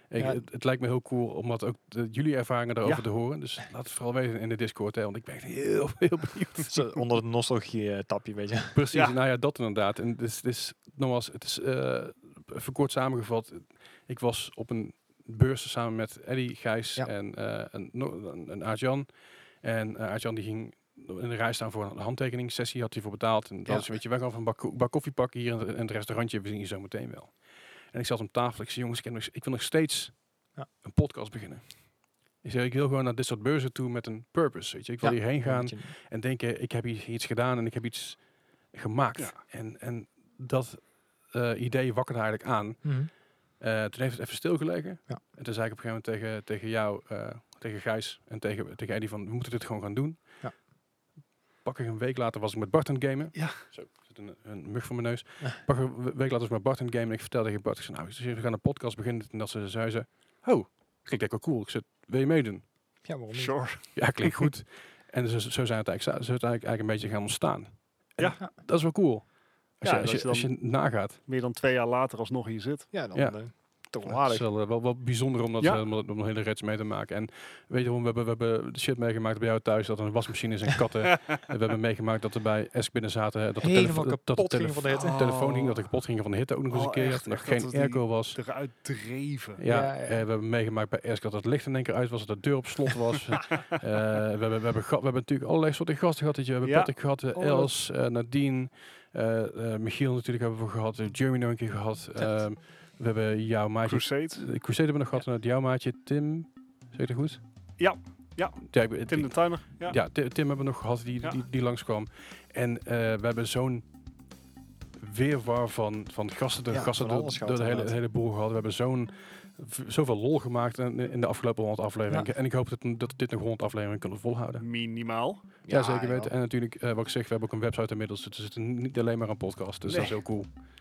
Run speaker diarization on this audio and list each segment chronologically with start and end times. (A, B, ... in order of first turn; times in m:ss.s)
0:00.1-0:06.7 A
0:00.2-0:00.4 B
0:06.7-0:08.8 B
0:08.7-0:50.6 A
0:23.6-0:23.9 B
0:35.0-0:35.9 B
0:39.2-0:39.4 C
0:42.8-0:43.1 B
0:51.6-1:02.7 A
0:53.3-0:53.6 C
1:03.0-1:03.6 B
1:03.3-1:04.5 C
1:03.9-1:11.2 A
1:09.8-1:12.9 C
1:12.9-1:14.4 B
1:13.1-1:28.4 A
1:23.6-1:25.2 B
1:24.9-1:25.9 C
1:26.7-1:29.6 C
1:29.6-1:47.4 A
1:29.7-1:30.2 B
1:36.6-1:36.9 C
1:37.3-1:37.7 B
1:43.8-1:44.5 C
1:47.8-1:50.0 C
1:48.7-1:53.9 A
1:55.0-2:04.6 A
1:56.7-1:58.0 B
2:04.6-2:05.5 C
2:05.7-2:06.3 B
2:05.7-2:10.5 A
2:09.8-2:10.2 C